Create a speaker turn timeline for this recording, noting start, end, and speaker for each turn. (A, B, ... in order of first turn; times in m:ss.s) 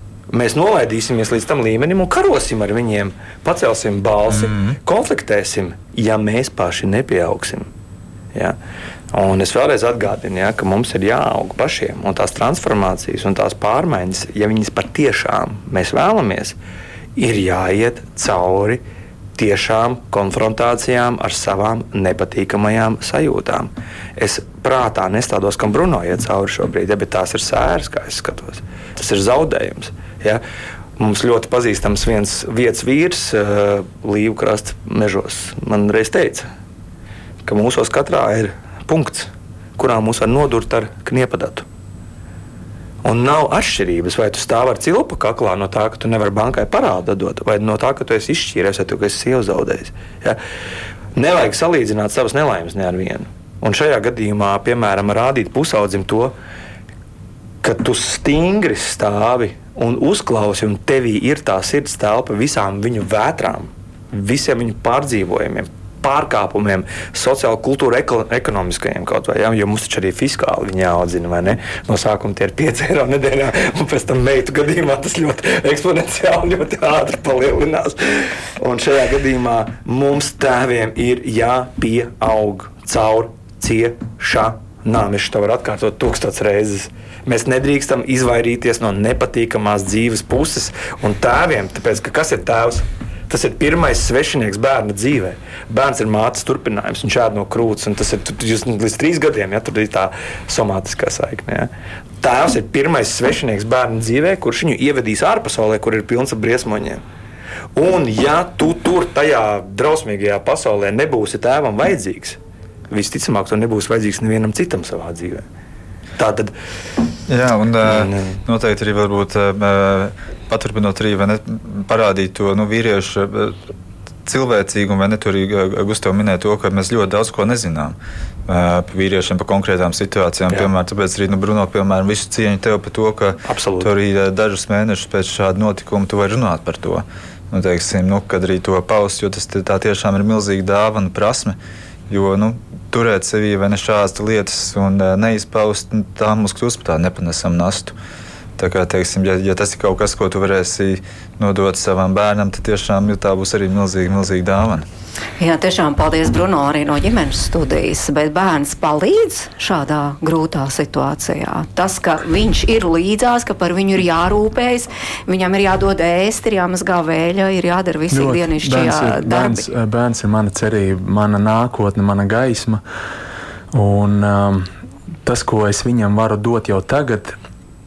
0:00.3-0:07.7 A
0:09.1-0:16.6 A
0:17.2-0:18.8 A
0:19.4-0:30.4 A
0:31.0-0:36.5 A
0:37.4-0:41.6 A
0:43.0-0:50.4 A
0:51.1-0:56.4 A
0:57.6-1:41.7 A
1:42.2-1:47.0 A
1:47.8-1:52.4 A
1:52.9-1:55.5 A
1:56.2-1:56.5 A
1:57.3-2:03.6 B
1:57.8-1:58.4 A
2:04.2-2:21.6 B
2:13.5-2:13.9 A
2:22.1-2:28.0 B
2:28.6-2:34.8 B
2:35.4-2:49.6 C
2:48.1-2:52.8 D
2:53.7-2:54.7 D
2:55.2-2:57.4 D